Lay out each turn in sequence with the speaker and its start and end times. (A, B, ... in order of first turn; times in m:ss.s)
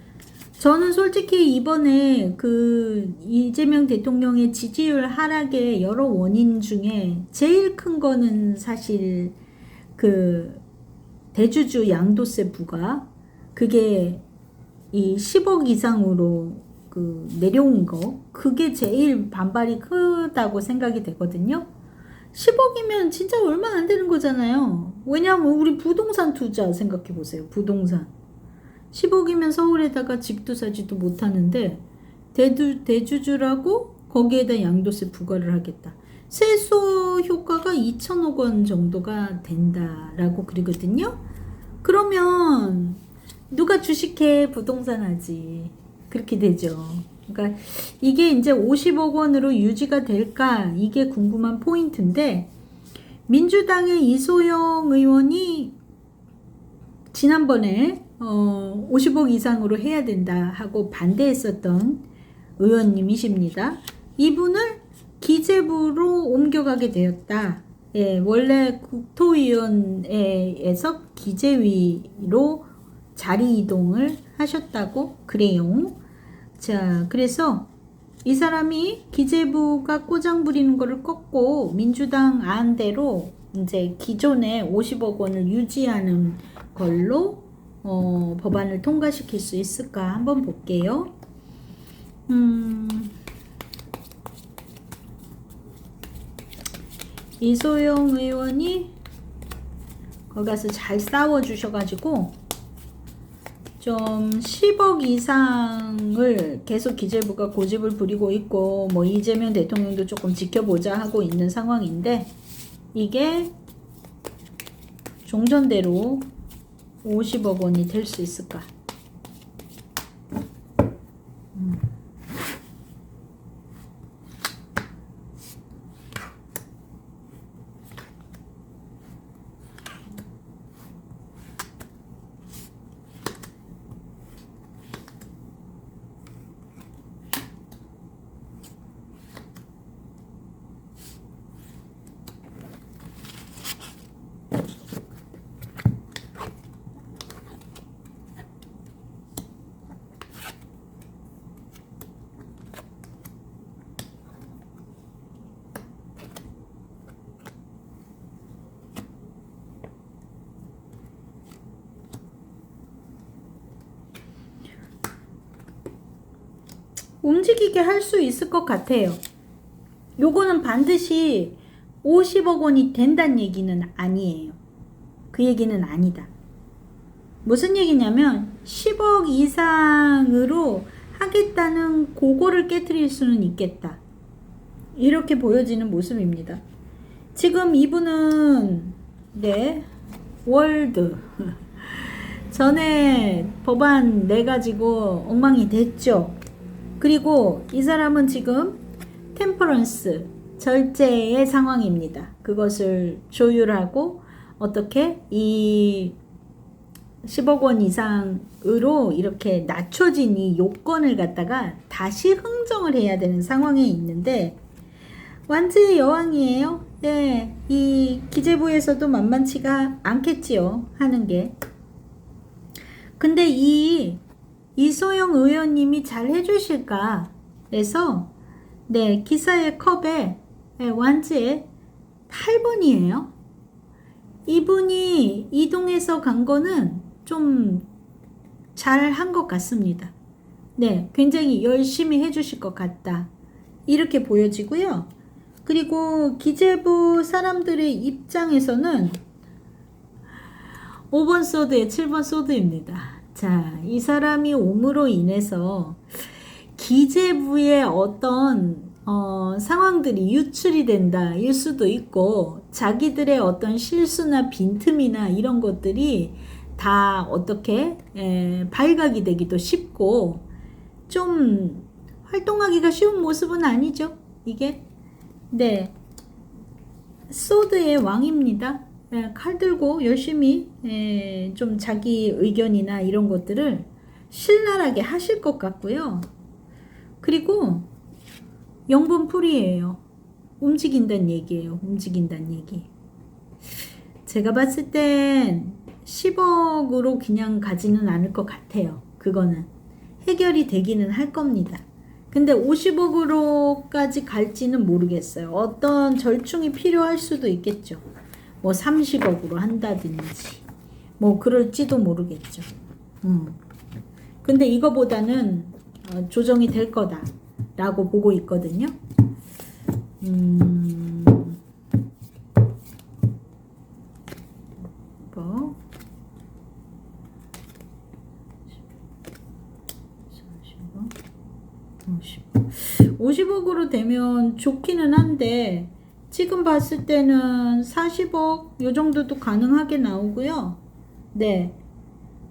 0:00.6-0:09.4 A
0:10.0-0:10.6 A
0:11.3-0:14.2 A
0:14.9-0:21.7 A
0:22.3-0:28.1 A
0:28.9-0:41.2 A
0:41.8-0:52.5 A
0:53.3-0:55.8 A
0:57.1-1:02.0 A
1:02.6-1:16.0 A
1:16.6-1:17.7 A
1:18.2-1:31.1 A
1:32.3-1:33.1 A
1:37.4-1:38.9 A
1:40.3-1:42.4 A
1:43.8-1:52.3 A
1:52.9-1:53.5 A
1:55.2-1:56.3 A
1:57.0-1:58.7 A
2:47.2-2:49.2 A
2:50.2-2:54.6 A
2:55.3-2:56.3 A
2:57.4-3:04.0 A
3:05.0-3:06.6 A
3:07.3-3:09.9 A
3:10.4-3:16.4 A
3:17.0-3:18.8 A
3:19.3-3:26.2 A
3:27.2-3:34.6 A
3:35.5-3:41.6 A
3:43.2-3:44.2 A
3:44.8-3:48.3 A
3:48.9-3:51.7 A
3:52.3-3:53.3 A
3:54.4-3:57.9 A
3:58.7-4:00.1 A
4:00.8-4:03.3 A
4:03.8-4:05.1 A
4:05.6-4:09.2 A
4:11.1-4:16.0 A
4:16.7-4:30.4 A
4:31.1-4:34.8 A
4:35.5-4:35.9 A
4:37.3-4:46.3 A
4:47.2-4:47.9 A
4:48.9-4:50.0 A
4:50.6-4:52.9 A
4:54.2-4:59.7 A
5:00.2-5:08.0 A
5:08.6-5:10.6 A
5:11.2-5:12.7 A
5:13.2-5:13.6 A
5:14.4-5:18.9 A
5:20.2-5:21.6 A
5:25.2-5:25.8 A
5:30.3-5:31.1 A
5:32.0-5:40.8 A
5:41.3-5:41.8 A